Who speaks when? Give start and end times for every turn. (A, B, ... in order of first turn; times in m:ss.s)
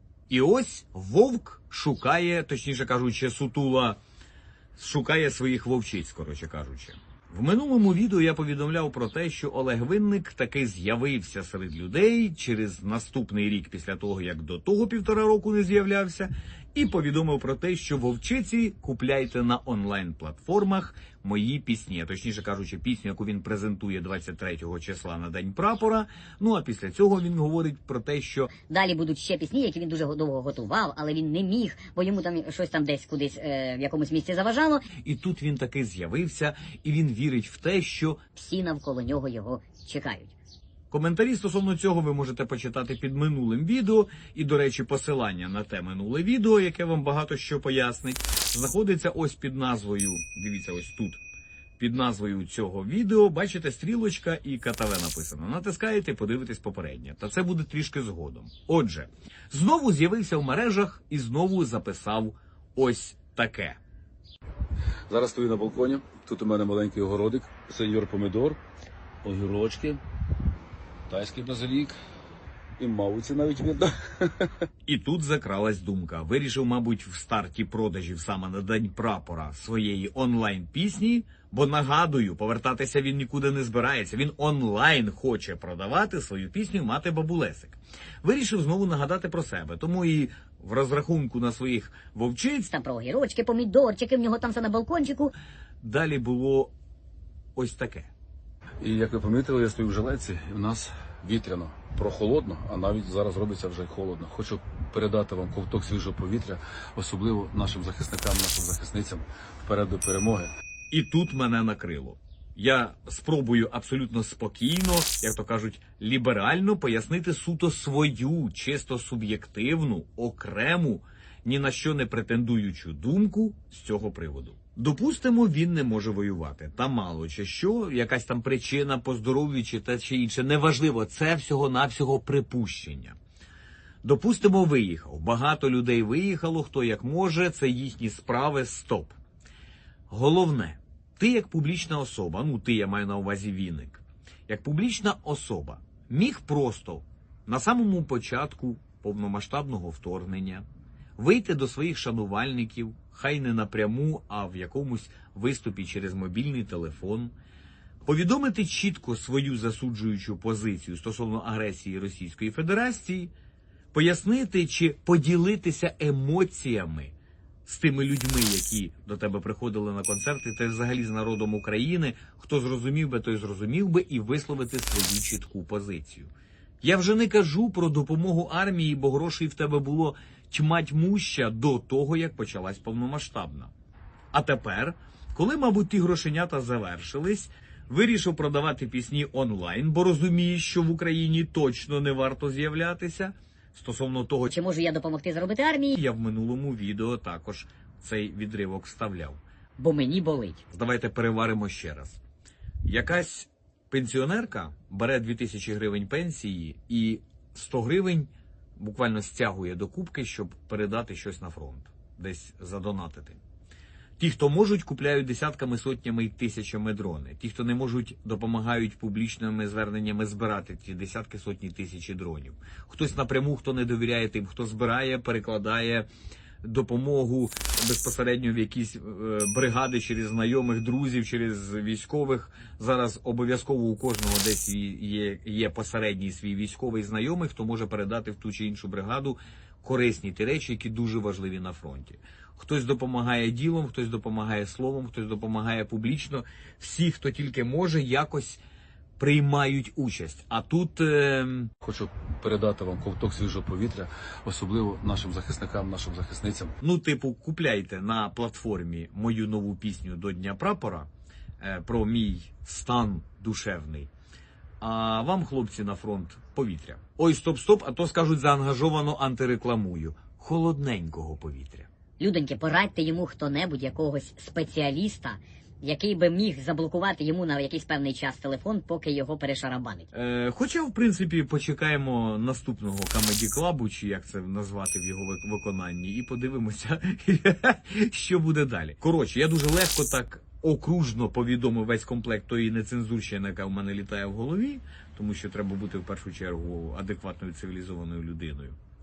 0:00.3-0:04.0 A
0:04.8-0:28.5 A
0:28.7-0:34.9 B
0:35.0-0:38.2 A
0:38.4-0:40.3 B
0:40.9-0:51.2 A
0:51.8-1:03.8 A
1:05.1-1:08.6 C
1:09.2-1:10.0 C
1:11.1-1:12.0 C
1:12.8-1:14.4 C
1:14.9-1:32.7 A
1:32.7-1:35.3 B
1:35.8-1:36.7 A
1:37.6-1:38.1 A
1:38.8-1:50.5 C
1:50.9-2:13.2 A
2:14.0-2:19.2 A
2:20.1-2:30.6 A
2:31.2-2:37.3 A
2:38.0-2:43.3 A
2:43.9-2:47.1 A
2:47.7-2:56.3 A
2:56.8-3:03.7 A
3:04.3-3:14.5 A
3:14.5-3:16.0 B
3:15.9-3:19.4 A
3:19.8-3:20.6 B
3:20.7-3:22.2 A
3:22.8-3:33.4 A
3:34.2-3:46.1 A
3:46.6-4:08.6 A
4:09.2-4:11.7 A
4:11.8-4:16.7 C
4:16.8-4:21.1 A
4:21.6-4:24.1 A
4:24.8-4:31.9 A
4:32.2-4:40.1 B
4:40.1-4:58.8 A